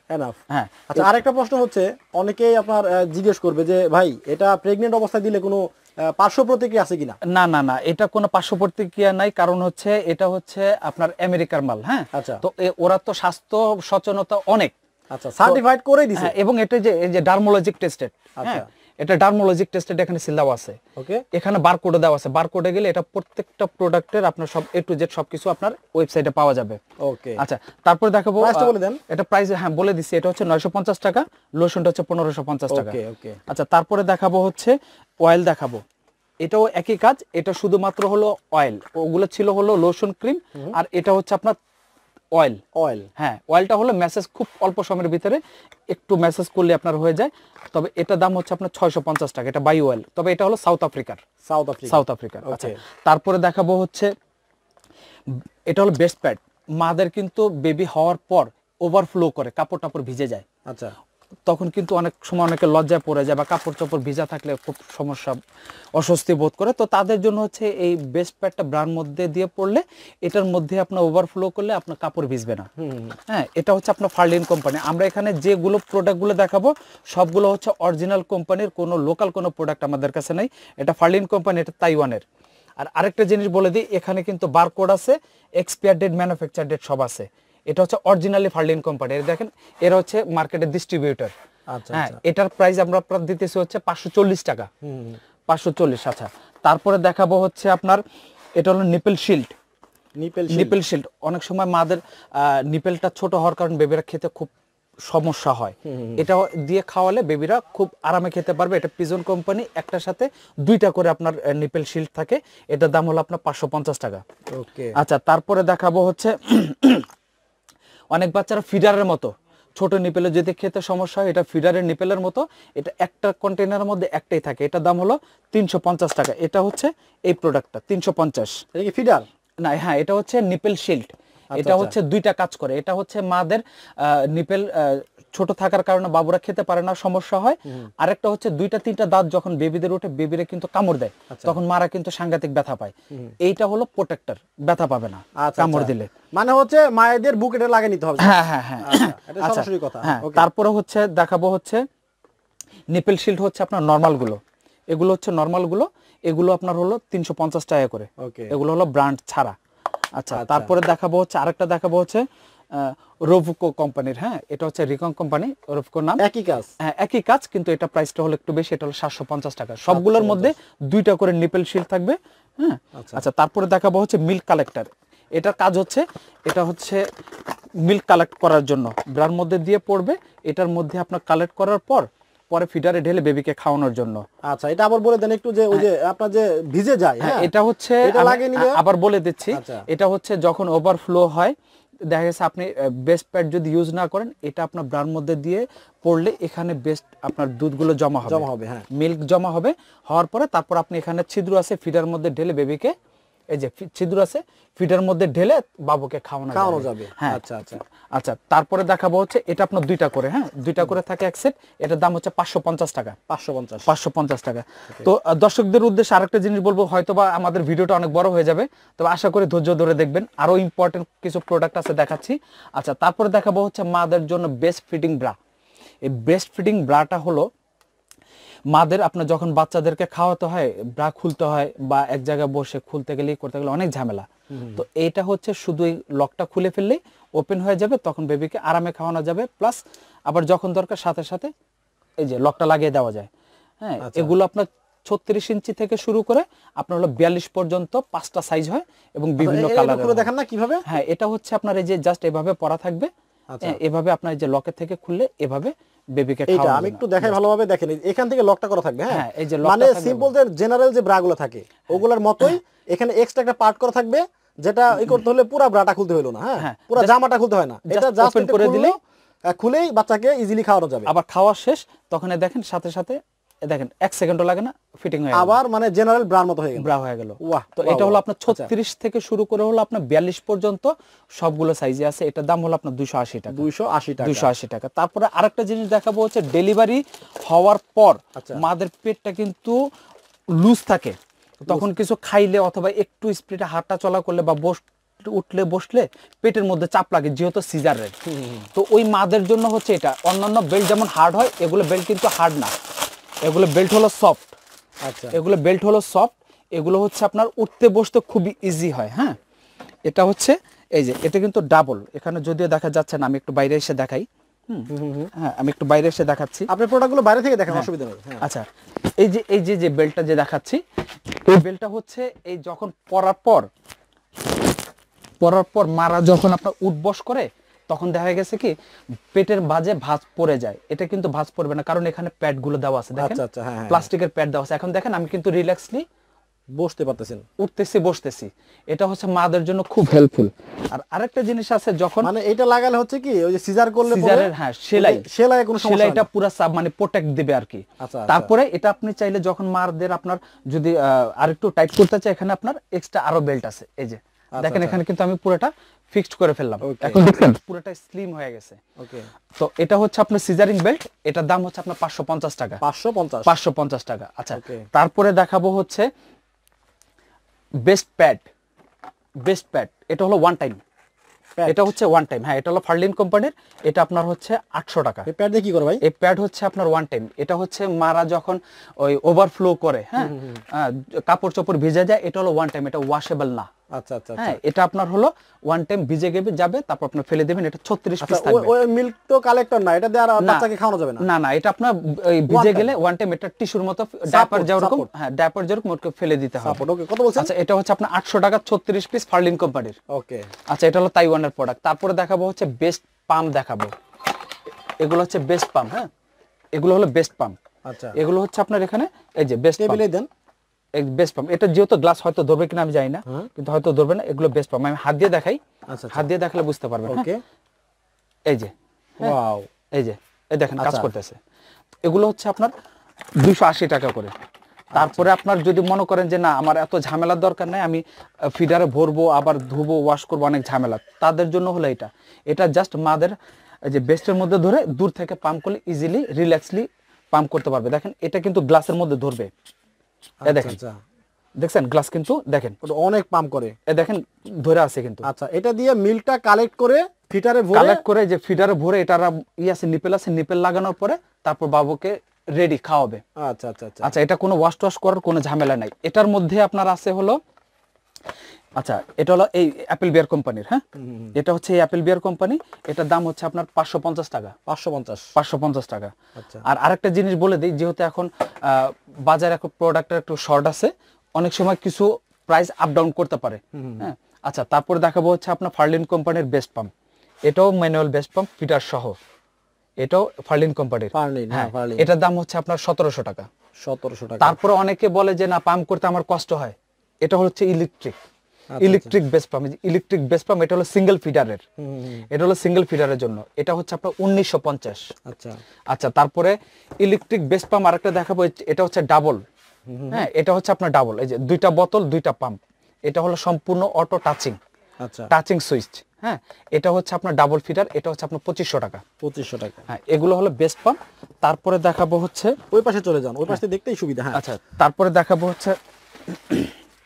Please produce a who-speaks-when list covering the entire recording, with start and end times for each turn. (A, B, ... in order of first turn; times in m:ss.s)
0:00.1-0:00.4 A
0:00.5-0:01.1 B
0:00.9-0:07.2 A
0:07.3-0:14.7 B
0:12.1-0:12.4 A
0:15.1-0:16.3 A
0:16.2-0:20.8 B
0:18.4-0:18.6 A
0:21.0-0:21.2 A
0:21.3-0:26.8 B
0:27.0-0:27.4 A
0:27.4-0:33.0 B
0:28.4-0:29.0 A
0:32.7-0:33.4 A
0:33.5-0:35.8 B
0:36.4-0:41.6 B
0:42.3-0:42.6 B
0:42.7-0:43.1 A
0:43.2-0:51.2 B
0:51.4-0:52.8 A
0:51.9-0:54.1 B
0:55.4-1:00.4 B
1:00.7-1:00.9 A
1:01.5-1:05.4 B
1:05.9-1:12.7 B
1:12.8-1:13.2 A
1:13.3-1:22.2 B
1:22.8-1:31.3 B
1:31.7-1:32.2 A
1:31.9-1:34.7 B
1:34.8-1:35.2 A
1:35.5-1:38.0 B
1:38.6-1:39.5 B
1:40.2-1:40.8 A
1:40.5-1:44.5 B
1:45.0-1:54.2 B
1:45.8-1:46.2 A
1:54.5-1:54.9 A
1:54.9-1:57.1 B
1:58.1-2:08.6 B
2:08.7-2:09.2 A
2:09.6-2:26.1 B
2:11.5-2:11.9 A
2:21.3-2:21.6 A
2:25.4-2:30.5 A
2:28.2-2:31.8 B
2:32.9-2:34.4 B
2:34.9-2:39.5 B
2:38.2-2:38.5 A
2:40.2-2:46.2 B
2:40.3-2:40.7 A
2:46.2-2:46.7 A
2:46.8-2:57.0 B
2:49.9-2:50.5 A
2:53.0-2:53.2 A
2:57.8-3:04.2 B
3:04.5-3:07.5 A
3:07.2-3:11.5 B
3:08.0-3:08.8 A
3:09.5-3:09.8 A
3:12.1-3:22.9 B
3:18.3-3:18.8 A
3:23.5-3:27.4 B
3:26.5-3:27.8 A
3:28.1-3:33.2 B
3:33.3-3:33.9 A
3:33.8-3:45.4 B
3:46.0-3:47.5 B
3:48.7-4:01.5 B
3:54.5-3:54.8 A
4:02.2-4:03.3 B
4:03.8-4:10.3 B
4:04.0-4:04.3 A
4:09.4-4:10.8 A
4:10.8-4:13.1 B
4:13.5-4:13.8 A
4:13.6-4:17.4 B
4:16.5-4:29.0 A
4:19.1-4:20.3 B
4:26.6-4:27.1 B
4:27.9-4:29.0 B
4:29.5-4:31.1 A
4:31.0-4:35.6 B
4:35.3-4:36.9 A
4:36.8-4:43.6 B
4:37.4-4:38.7 A
4:43.5-4:44.5 A
4:44.2-4:49.8 B
4:48.4-4:48.6 A
4:50.6-4:58.1 B
4:58.2-4:58.7 A
4:58.7-5:02.7 B
5:03.4-5:04.6 B
5:05.0-5:05.4 A
5:05.3-5:09.4 B
5:10.0-5:16.7 B
5:14.9-5:15.3 A
5:16.7-5:18.4 A
5:18.4-5:18.6 B
5:19.2-5:20.8 B
5:21.3-5:23.7 B
5:25.4-5:28.7 B
5:29.3-5:36.0 B
5:33.2-5:34.1 A
5:36.7-5:37.4 A
5:37.6-5:42.3 B
5:42.2-5:46.3 A
5:44.0-5:45.2 B
5:45.8-5:58.8 B
5:48.0-5:48.5 A
5:54.6-5:55.0 A
5:56.8-5:57.2 A
5:59.0-5:59.3 A
5:59.6-6:02.8 B
6:02.8-6:03.5 A
6:03.4-6:06.1 B
6:04.5-6:04.8 A
6:07.8-6:08.4 B
6:09.4-6:10.8 B
6:11.6-6:11.9 A
6:11.7-6:15.3 B
6:15.2-6:16.0 A
6:16.0-6:23.7 B
6:20.2-6:20.6 A
6:23.9-6:24.6 A
6:24.4-6:28.7 B
6:28.2-6:31.2 A
6:30.4-6:30.7 B
6:31.2-6:36.8 B
6:32.5-6:32.9 A
6:34.3-6:35.1 A
6:36.6-6:37.5 A
6:37.4-6:40.0 B
6:40.1-6:40.5 A
6:40.7-6:43.9 B
6:45.0-6:46.1 B
6:46.7-6:47.6 B
6:47.8-6:48.2 A
6:48.1-6:50.0 B
6:49.8-6:50.3 A
6:50.9-6:55.6 B
6:55.9-6:56.2 A
6:56.1-6:57.3 B
6:57.1-6:57.4 A
6:58.5-6:59.3 B
6:59.2-6:59.7 A
6:59.9-7:01.4 B
7:00.8-7:01.1 A
7:02.0-7:02.7 B
7:03.4-7:04.3 B
7:04.9-7:05.2 A
7:04.9-7:19.5 B
7:20.4-7:20.8 B
7:20.4-7:21.0 A
7:21.6-7:22.8 B
7:22.8-7:23.8 A
7:23.9-7:25.3 B
7:25.2-7:28.0 A
7:27.7-7:33.2 B
7:33.4-7:34.1 A
7:34.0-7:37.4 B
7:38.8-7:40.8 B
7:41.0-7:41.3 A
7:41.3-7:44.5 B
7:44.7-7:45.3 A
7:45.3-7:56.9 B
7:46.4-7:46.6 A
7:53.7-7:54.1 A
7:57.4-7:59.2 B
8:00.0-8:03.5 B
8:01.1-8:02.1 A
8:03.8-8:04.6 A
8:04.4-8:08.2 B
8:08.7-8:09.1 A
8:08.8-8:11.6 B
8:11.8-8:12.2 A
8:12.3-8:15.1 B
8:15.2-8:15.6 A
8:15.9-8:19.4 B
8:19.9-8:20.3 A
8:20.1-8:24.6 B
8:25.0-8:25.3 A
8:25.3-8:29.0 B
8:29.2-8:29.8 A
8:29.9-8:32.6 B
8:32.7-8:34.4 A
8:34.3-8:36.7 B